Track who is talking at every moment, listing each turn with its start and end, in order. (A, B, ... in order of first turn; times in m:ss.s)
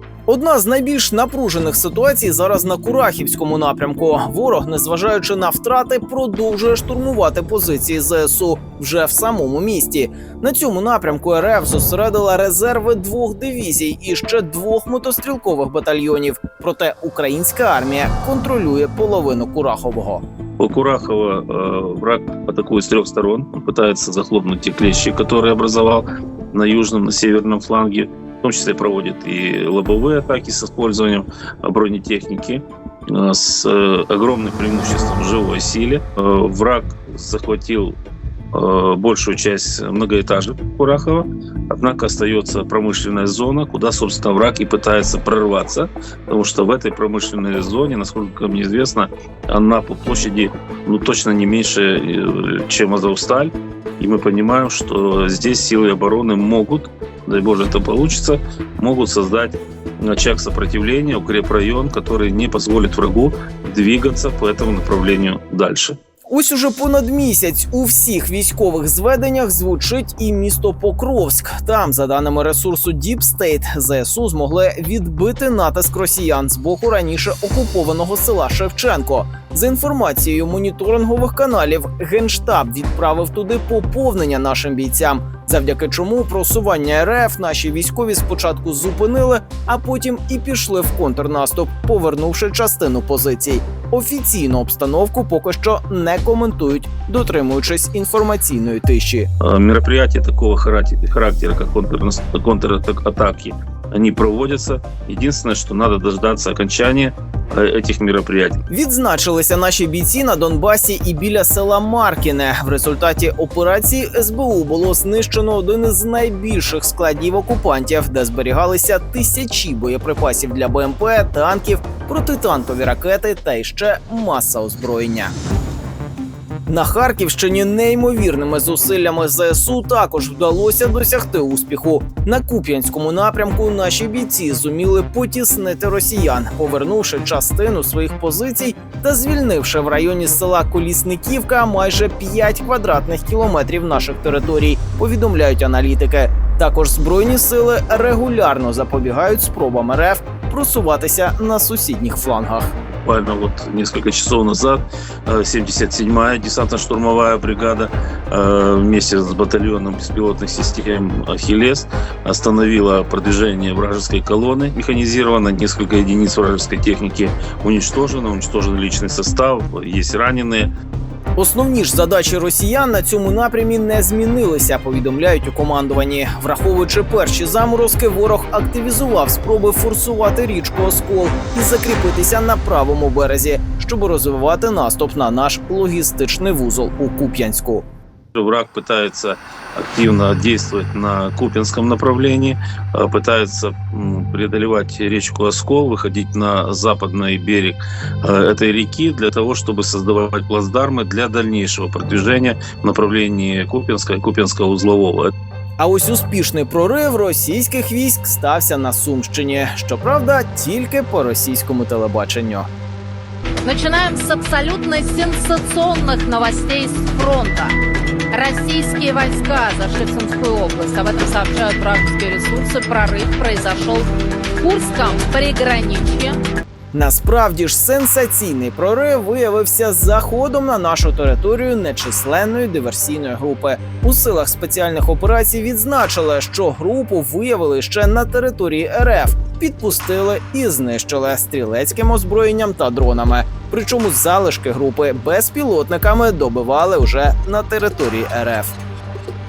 0:00.3-0:20.2 A
0:20.6-0:38.0 B
0:38.5-1:06.0 B
1:06.3-1:39.3 A
1:39.4-1:48.6 B
1:48.7-2:05.3 A
2:06.7-2:32.7 A
2:33.0-2:50.7 B
2:51.4-3:07.8 A
3:08.3-3:25.3 B
3:25.8-3:32.7 A
3:33.6-3:37.8 C
3:38.3-3:46.4 C
3:46.9-4:08.7 A